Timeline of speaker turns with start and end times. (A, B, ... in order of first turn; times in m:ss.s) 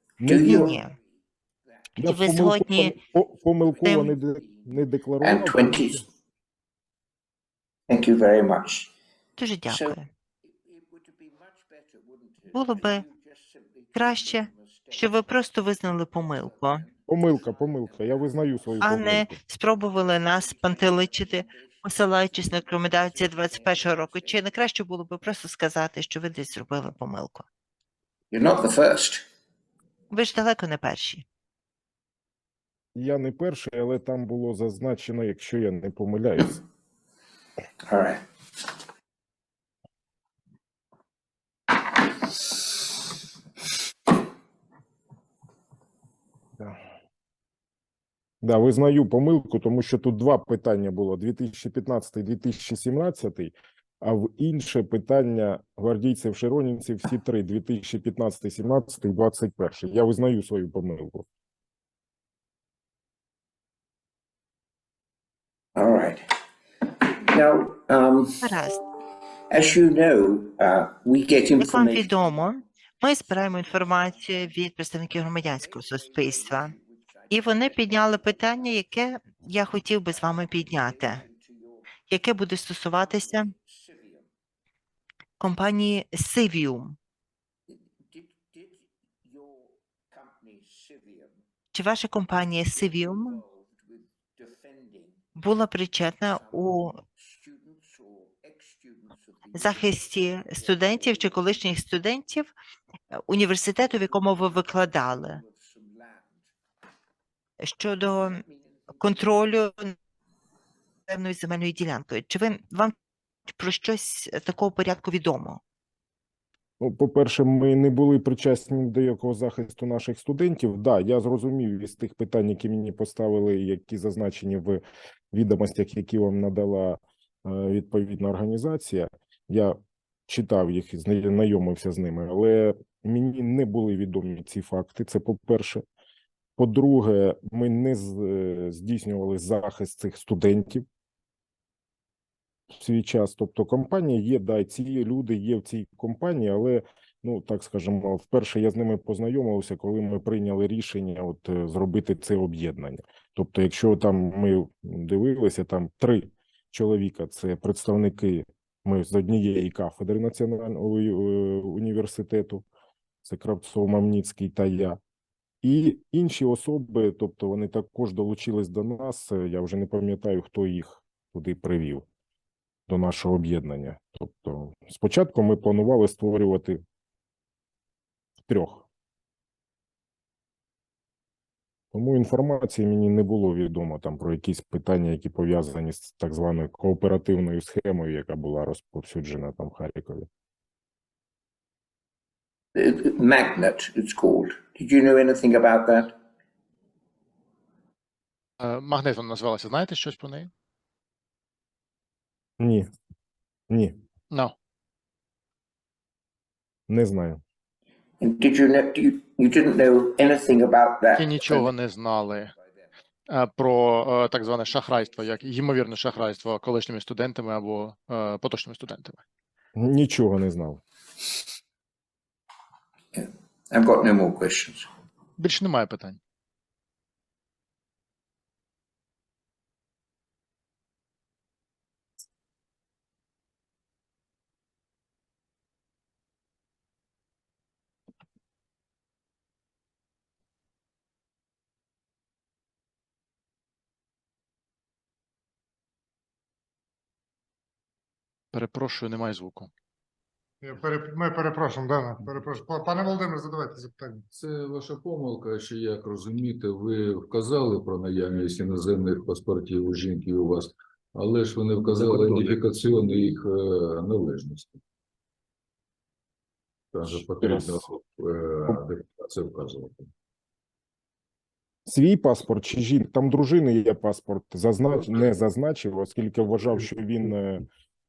0:00.2-0:00.7 A
0:00.2-0:01.0 B
0:00.4-0:00.9 C
0:02.0-0:06.0 A
0:02.0-0:03.0 C
0:03.8-0:04.1 C
0:04.4-0:04.7 B
0:05.2-0:06.0 B
0:07.9-0:08.9 B
0:09.4-0:10.1 C
0:09.7-0:15.2 B
0:12.5-0:13.0 C
0:13.9-0:16.9 C
0:16.2-0:18.6 B
0:17.1-0:19.4 A
0:18.8-0:27.4 C
0:20.2-0:21.8 B
0:22.4-0:24.4 B
0:28.3-0:29.3 B
0:30.1-0:31.2 C
0:32.9-0:36.6 A
0:37.9-0:38.2 B
0:48.4-1:01.3 A
1:05.8-1:06.3 B
1:06.8-1:08.5 B
1:08.4-1:08.8 C
1:09.5-1:12.3 B
1:11.6-1:16.7 C
1:13.6-1:14.5 B
1:15.4-1:18.6 B
1:17.3-1:21.2 C
1:20.2-1:21.9 B
1:22.1-1:23.5 C
1:23.0-1:24.3 B
1:25.4-1:27.0 C
1:27.7-1:31.4 B
1:31.7-1:33.4 C
1:32.7-1:35.2 B
1:35.4-1:37.0 C
1:36.4-1:41.0 B
1:39.6-1:42.5 C
1:43.1-1:45.4 C
1:45.2-1:46.4 B
1:47.6-1:48.4 C
1:48.4-1:49.0 B
1:49.0-1:49.9 C
1:51.1-1:52.9 C
1:53.5-1:55.6 C
1:56.8-2:15.8 A
2:16.6-2:20.9 A
2:22.7-2:42.6 A
2:43.2-2:45.0 A
2:45.6-2:52.1 A
2:52.9-2:56.8 A
2:58.4-2:58.8 A
3:01.9-3:10.3 A
3:12.7-3:16.2 B
3:18.6-3:20.5 D
3:22.6-3:22.9 A
3:23.7-3:24.0 A
3:26.9-3:27.4 A
3:28.2-3:31.7 B
3:31.2-3:32.5 D
3:33.3-3:39.2 D
3:39.8-3:40.8 A
3:43.1-3:44.9 B
3:45.4-3:46.2 D
4:08.5-4:09.7 D
4:10.6-4:14.2 E
4:14.3-4:24.8 F
4:26.9-4:30.1 F
4:27.1-4:27.9 A
4:31.9-4:37.6 A